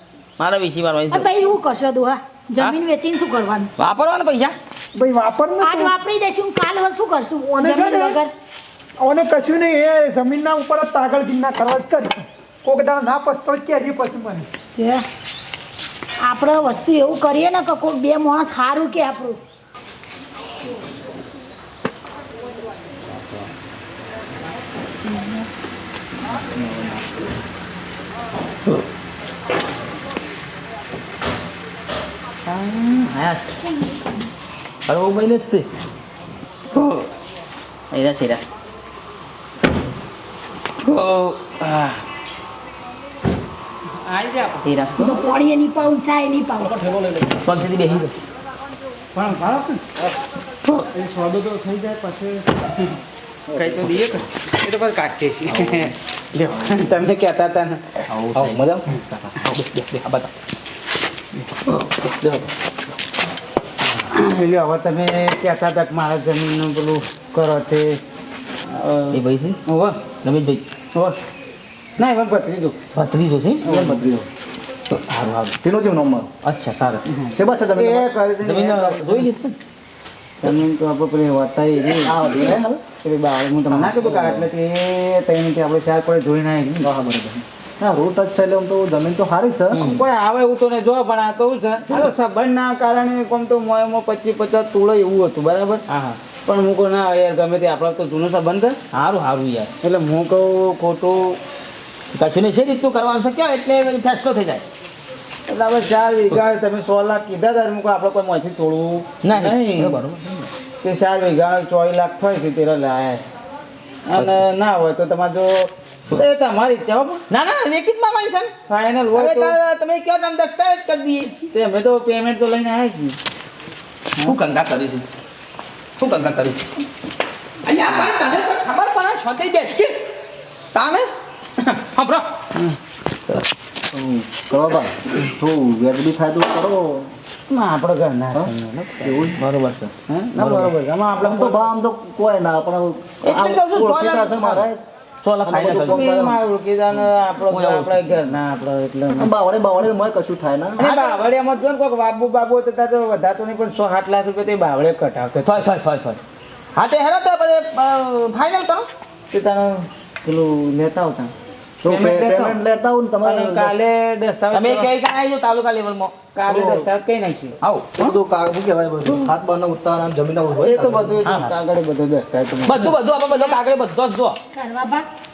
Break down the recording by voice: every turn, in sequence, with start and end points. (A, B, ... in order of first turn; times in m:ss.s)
0:00.4-0:01.3 A
0:01.1-0:03.7 B
0:03.8-0:04.5 A
0:05.0-0:05.9 C
0:05.6-0:08.3 B
0:07.5-0:08.2 C
0:09.0-0:14.5 C
0:14.8-0:15.0 B
0:16.2-0:19.4 B
0:32.4-0:33.5 A
0:34.9-0:35.6 A
0:36.7-0:37.0 A
0:37.9-0:38.5 A
0:40.8-0:42.0 A
0:44.0-0:45.2 D
0:44.6-0:44.9 A
0:45.0-0:46.8 B
0:47.4-0:48.1 A
0:49.1-0:49.8 D
0:50.9-0:52.9 D
0:53.5-0:54.1 E
0:53.5-0:58.0 D
0:58.1-1:00.3 A
0:58.3-0:58.9 E
1:01.8-1:02.5 E
1:04.1-1:08.0 D
1:08.7-1:10.0 D
1:09.1-1:09.6 A
1:10.2-1:10.6 A
1:12.0-1:12.8 D
1:12.9-1:13.6 A
1:13.6-1:14.0 D
1:13.6-1:14.3 E
1:14.9-1:15.6 A
1:15.6-1:16.3 E
1:16.4-1:17.0 A
1:17.1-1:19.3 D
1:17.3-1:18.1 E
1:18.4-1:19.6 A
1:20.4-1:22.2 D
1:22.0-1:22.8 E
1:23.0-1:26.9 D
1:23.8-1:24.4 E
1:26.8-1:29.9 E
1:29.7-1:30.0 A
1:29.7-1:35.8 D
1:35.9-1:36.2 A
1:36.4-1:38.8 D
1:38.9-1:39.7 A
1:39.8-1:41.4 D
1:42.1-1:44.6 A
1:45.5-1:50.0 D
1:49.2-1:50.5 A
1:50.8-1:53.2 D
1:54.1-1:57.2 D
1:57.3-1:58.5 A
1:58.7-1:59.6 D
1:59.1-2:01.3 A
2:01.5-2:03.2 D
2:04.2-2:05.0 A
2:06.0-2:06.6 A
2:07.6-2:10.0 A
2:10.7-2:12.3 A
2:13.9-2:17.1 E
2:17.5-2:19.4 D
2:19.0-2:19.4 E
2:19.4-2:19.9 A
2:20.1-2:21.7 D
2:20.3-2:24.8 E
2:23.2-2:24.7 A
2:25.2-2:26.1 A
2:25.4-2:26.4 E
2:25.6-2:29.3 D
2:26.9-2:28.2 A
2:29.1-2:31.0 E
2:30.8-2:35.7 D
2:30.8-2:31.3 A
2:35.4-2:36.2 A
2:36.7-2:38.9 A
2:39.3-2:41.3 D
2:41.8-2:43.8 E
2:41.8-2:42.6 D
2:43.2-2:44.9 D
2:44.5-2:46.2 A
2:46.3-2:48.1 D
2:46.4-2:46.9 E
2:47.6-2:47.9 A
2:48.0-2:51.2 E
2:50.6-2:52.9 D
2:51.2-2:51.5 A
2:52.6-2:54.4 A
2:54.5-2:55.0 B